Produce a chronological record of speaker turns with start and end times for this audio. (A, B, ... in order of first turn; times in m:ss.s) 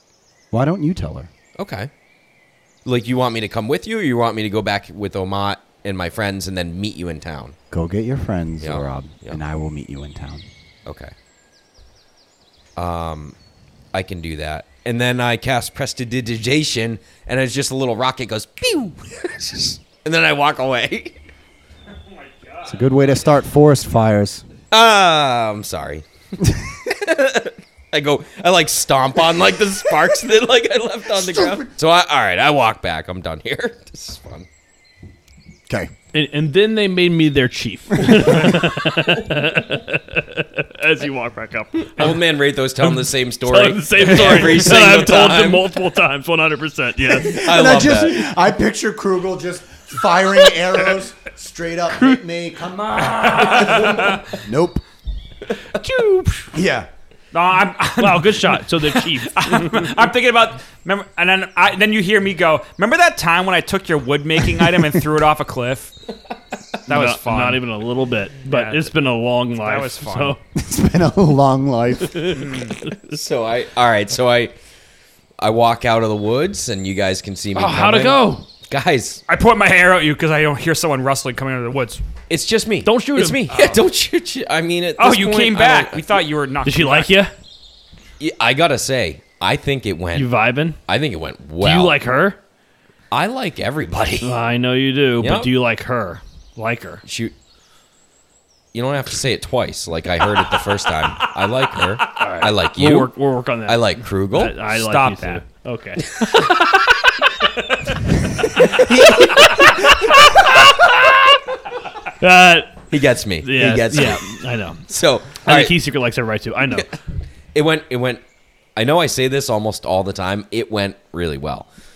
0:00.5-0:01.3 A
0:01.6-0:01.9 B
0:02.8-0:07.6 B
0:07.7-0:10.5 A
0:08.6-0:09.4 B
0:10.9-0:11.1 B
0:12.8-0:13.4 B
0:13.9-0:21.2 B
0:22.0-0:22.9 C
0:22.6-0:24.5 A
0:24.7-0:34.5 B
0:31.2-0:31.6 A
0:36.1-0:42.2 D
0:42.0-0:45.8 B
0:42.8-0:47.4 D
0:47.1-0:54.8 A
0:47.2-0:48.3 B
0:53.3-0:54.2 C
0:55.8-0:56.5 D
0:56.5-0:56.9 A
0:57.3-1:05.9 C
0:58.0-0:59.9 D
1:06.9-1:07.7 C
1:06.9-1:10.4 D
1:08.5-1:08.9 C
1:09.6-1:10.4 C
1:10.6-1:12.5 A
1:12.3-1:12.8 C
1:12.9-1:14.6 B
1:15.4-1:19.2 B
1:17.5-1:18.5 D
1:19.3-1:22.0 C
1:22.3-1:26.2 B
1:22.8-1:23.5 D
1:23.5-1:23.8 C
1:25.0-1:27.1 C
1:26.6-1:27.3 D
1:28.2-1:32.0 B
1:30.1-1:30.8 D
1:31.6-1:32.4 D
1:33.1-1:34.3 B
1:34.2-1:37.0 D
1:35.2-1:35.5 B
1:37.0-1:37.3 B
1:38.7-1:44.6 B
1:42.2-1:46.5 D
1:44.6-1:45.4 C
1:46.1-1:46.7 B
1:48.4-1:50.8 B
1:50.4-1:50.9 D
1:52.2-1:52.8 D
1:52.9-1:54.3 B
1:53.4-1:54.8 D
1:54.9-1:55.8 B
1:55.4-1:56.9 D
1:57.5-1:58.2 B
1:58.8-2:01.7 B